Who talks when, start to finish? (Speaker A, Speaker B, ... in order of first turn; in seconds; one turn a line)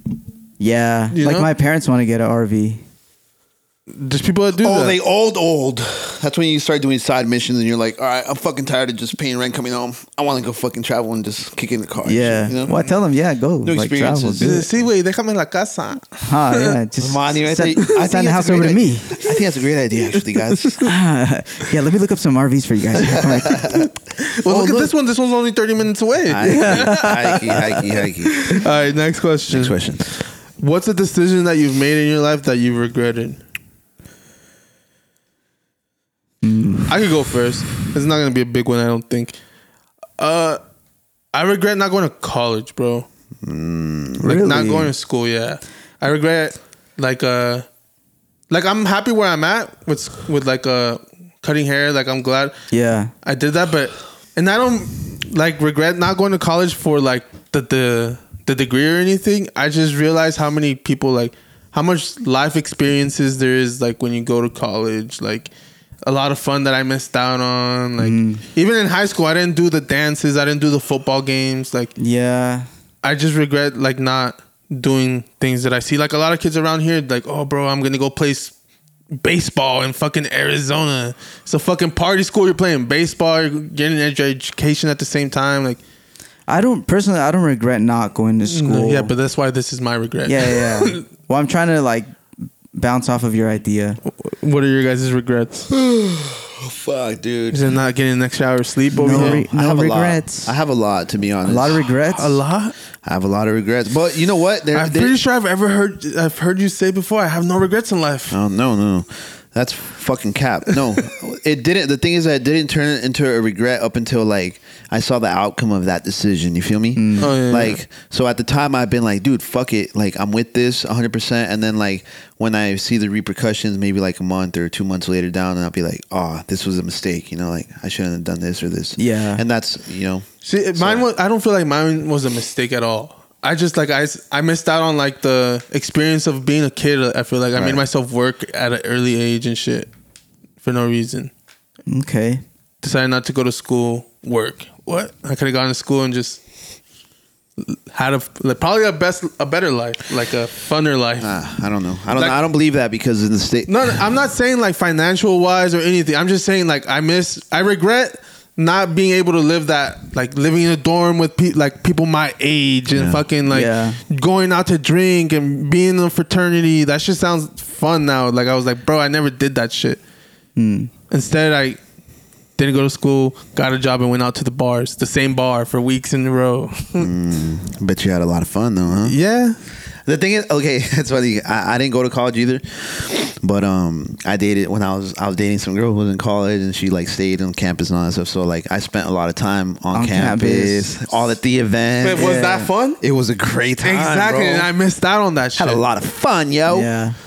Speaker A: 0.6-2.8
Speaker B: 1.1-1.5
Speaker B: 3.9-5.0
Speaker C: 4.6-12.8
Speaker A: 12.0-14.7
Speaker C: 13.6-14.8
Speaker B: 14.4-16.7
Speaker A: 16.2-19.2
Speaker C: 17.0-20.9
Speaker A: 20.8-23.9
Speaker C: 23.1-23.9
Speaker B: 24.3-27.1
Speaker C: 24.4-24.9
Speaker C: 26.3-28.5
Speaker A: 26.5-27.8
Speaker B: 28.4-29.9
Speaker C: 29.5-30.0
Speaker B: 30.6-33.4
Speaker A: 36.4-36.9
Speaker B: 36.9-39.3
Speaker B: 40.2-40.6
Speaker B: 41.3-43.0
Speaker C: 43.4-44.2
Speaker B: 44.2-47.6
Speaker A: 44.2-44.9
Speaker B: 48.5-52.5
Speaker A: 52.7-53.1
Speaker B: 53.2-65.5
Speaker B: 66.0-71.9
Speaker A: 68.0-68.4
Speaker A: 72.0-72.7
Speaker B: 73.0-78.5
Speaker B: 79.1-85.8
Speaker A: 86.5-89.1
Speaker B: 88.5-91.0
Speaker A: 90.2-92.2
Speaker A: 92.7-94.0
Speaker B: 94.1-95.7
Speaker C: 95.7-97.7
Speaker B: 97.5-99.4
Speaker A: 99.0-100.5
Speaker C: 99.0-101.9
Speaker A: 101.5-102.4
Speaker B: 102.1-102.7
Speaker C: 103.0-105.2
Speaker B: 104.7-108.3
Speaker C: 108.3-131.1
Speaker A: 117.0-117.3
Speaker B: 117.2-117.8
Speaker A: 129.0-129.4
Speaker B: 130.4-139.9
Speaker C: 137.5-137.8
Speaker B: 140.6-141.3
Speaker A: 141.9-142.4
Speaker B: 142.8-146.4
Speaker B: 147.9-151.4
Speaker C: 151.2-154.0
Speaker B: 152.1-152.4
Speaker B: 153.7-170.0
Speaker C: 162.9-163.2
Speaker A: 163.5-164.0
Speaker A: 170.6-170.9
Speaker B: 171.1-171.8
Speaker B: 172.6-177.1
Speaker C: 177.0-179.2
Speaker B: 179.0-179.6
Speaker C: 180.0-192.4
Speaker A: 189.9-191.0
Speaker B: 192.0-193.0
Speaker A: 192.2-192.7
Speaker C: 193.0-194.7
Speaker B: 193.8-195.8
Speaker C: 195.6-196.9
Speaker A: 196.7-197.2